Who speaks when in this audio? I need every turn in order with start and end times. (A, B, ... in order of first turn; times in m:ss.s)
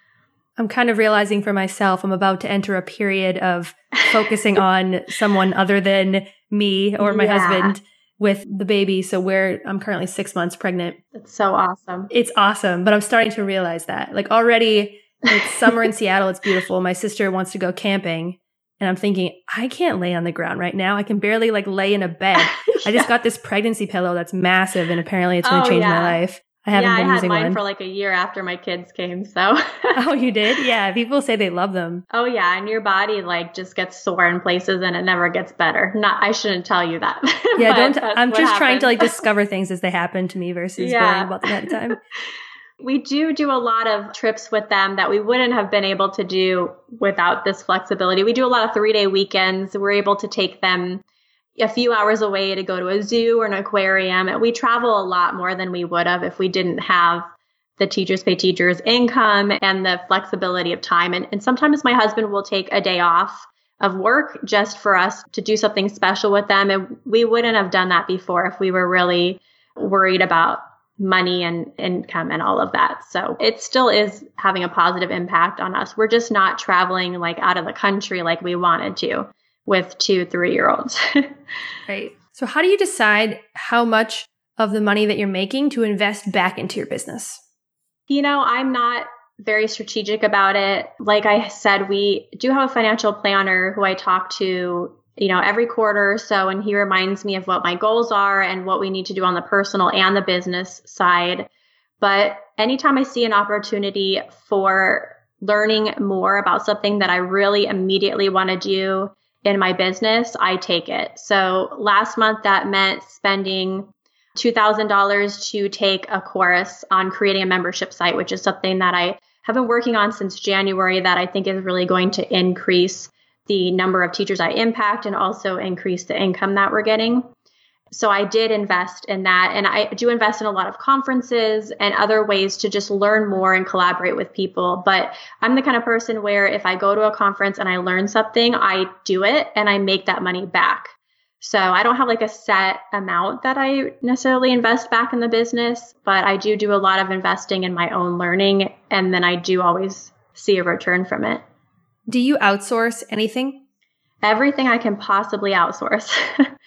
0:00.6-0:11.0 A
0:07.0-0:07.7 B
0:11.1-0:12.1 B
0:12.1-0:27.6 A
0:22.4-0:23.1 B
0:25.4-0:26.2 B
0:26.7-0:30.0 B
0:29.9-0:32.0 A
0:32.1-0:39.2 B
0:37.6-0:42.0 A
0:40.8-0:41.9 B
0:42.8-0:51.0 B
0:51.6-1:21.3 B
1:21.9-1:27.4 A
1:28.1-1:41.5 B
1:42.0-2:07.3 B
2:07.9-2:31.4 B
2:32.1-2:33.6 A
2:34.2-2:36.5 B